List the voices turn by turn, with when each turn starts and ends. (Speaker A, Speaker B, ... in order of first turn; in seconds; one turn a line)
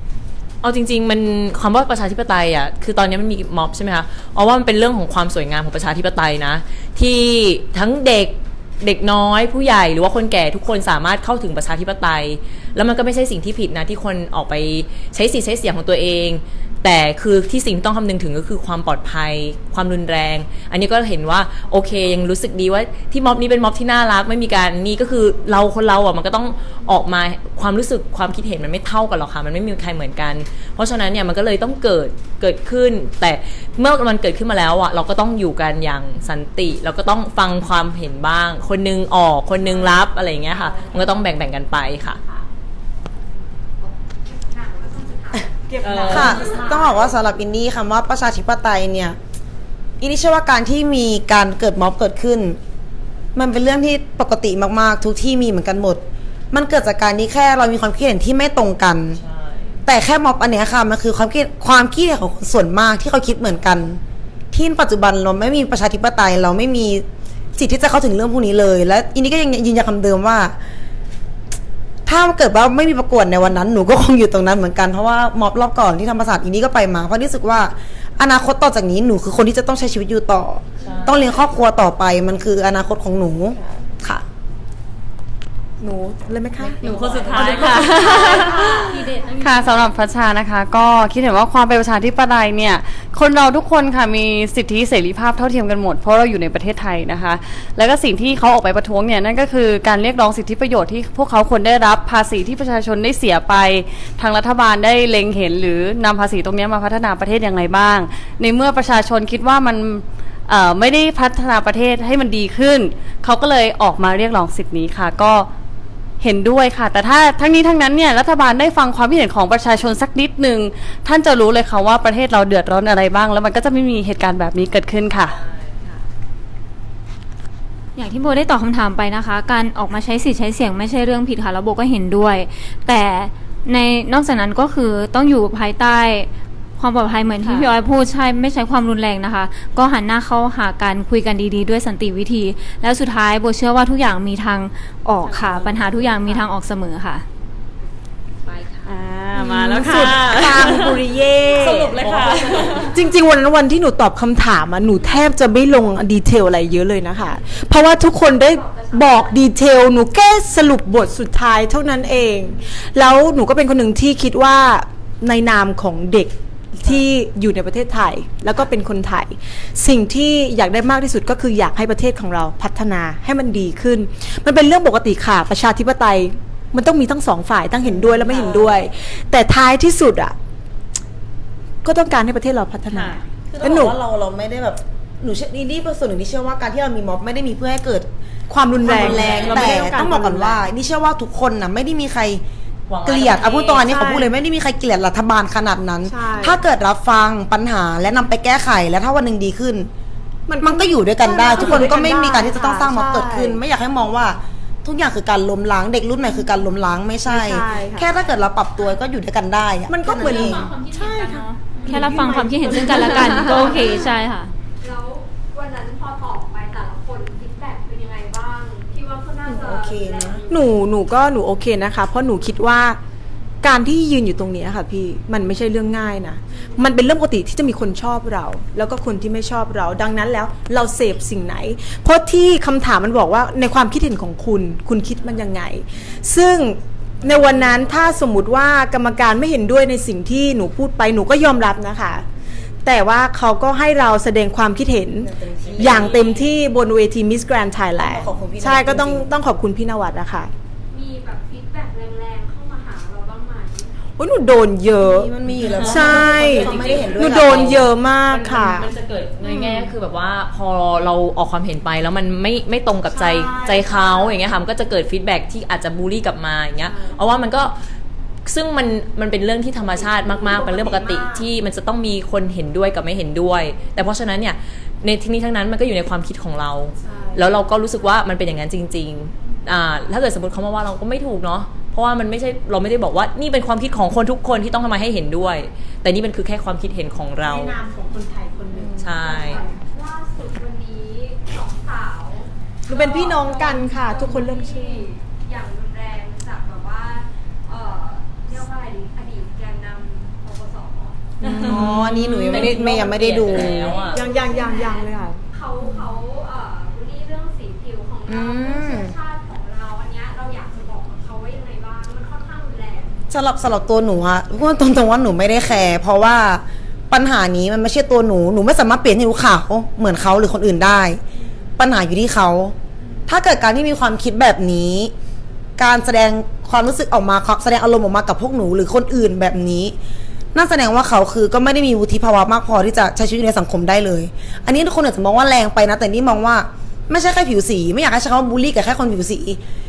Speaker A: 0.6-42.2
Speaker B: 39.6-40.0
Speaker C: 43.1-45.8
Speaker B: 45.6-46.6
Speaker A: 45.8-46.5
Speaker D: 46.1-49.2
Speaker C: 46.3-47.2
Speaker D: 50.0-52.6
Speaker D: 53.3-59.2
Speaker A: 59.1-59.8
Speaker D: 59.8-64.0
Speaker D: 64.5-67.0
Speaker D: 67.5-70.5
Speaker D: 72.0-84.2
Speaker A: 80.8-81.5
Speaker B: 83.5-83.8
Speaker B: 85.8-88.7
Speaker E: 86.8-115.5
Speaker A: 86.8-88.8
Speaker E: 116.2-125.3
Speaker A: 125.2-125.8
Speaker F: 128.0-147.2
Speaker E: 137.4-137.7
Speaker E: 145.2-145.7
Speaker C: 148.4-149.1
Speaker E: 148.8-151.1
Speaker B: 149.3-180.3
Speaker A: 150.0-150.7
Speaker C: 151.1-151.6
Speaker A: 151.6-153.0
Speaker E: 151.9-152.9
Speaker C: 157.1-159.6
Speaker C: 162.4-162.9
Speaker D: 177.8-178.8
Speaker B: 181.8-183.9
Speaker E: 182.9-183.2
Speaker D: 183.6-188.1
Speaker B: 188.5-190.6
Speaker D: 188.8-192.4
Speaker A: 188.9-189.8
Speaker A: 192.9-193.9
Speaker D: 193.0-199.9
Speaker B: 193.8-194.3
Speaker B: 196.1-196.6
Speaker B: 200.5-203.6
Speaker D: 200.6-210.7
Speaker B: 207.2-208.1
Speaker B: 209.9-213.9
Speaker C: 210.3-211.7
Speaker F: 211.8-214.5
Speaker C: 213.6-214.2
Speaker C: 214.8-220.7
Speaker D: 219.4-220.4
Speaker B: 220.5-223.0
Speaker B: 223.6-242.2
Speaker C: 226.5-226.9
Speaker C: 242.4-242.7
Speaker B: 242.8-250.5
Speaker D: 245.2-246.2
Speaker A: 245.6-246.5
Speaker D: 248.0-249.3
Speaker C: 250.9-254.1
Speaker B: 254.2-258.9
Speaker D: 254.9-257.9
Speaker A: 255.5-267.7
Speaker B: 263.1-264.4
Speaker B: 266.8-267.2
Speaker A: 268.4-287.7
Speaker B: 270.3-271.5
Speaker C: 273.7-274.1
Speaker B: 277.0-277.5
Speaker C: 277.1-278.3
Speaker C: 279.4-279.8
Speaker B: 287.4-289.8
Speaker D: 288.7-289.0
Speaker A: 289.0-289.6
Speaker C: 289.4-301.5
Speaker B: 292.9-295.1
Speaker D: 301.4-303.9
Speaker B: 301.6-302.6
Speaker A: 301.8-304.2
Speaker C: 303.5-313.3
Speaker B: 304.1-305.4
Speaker D: 308.3-309.1
Speaker D: 313.3-321.2
Speaker C: 321.3-321.7
Speaker D: 321.8-322.7
Speaker D: 323.3-325.1
Speaker D: 325.8-329.9
Speaker D: 330.5-339.6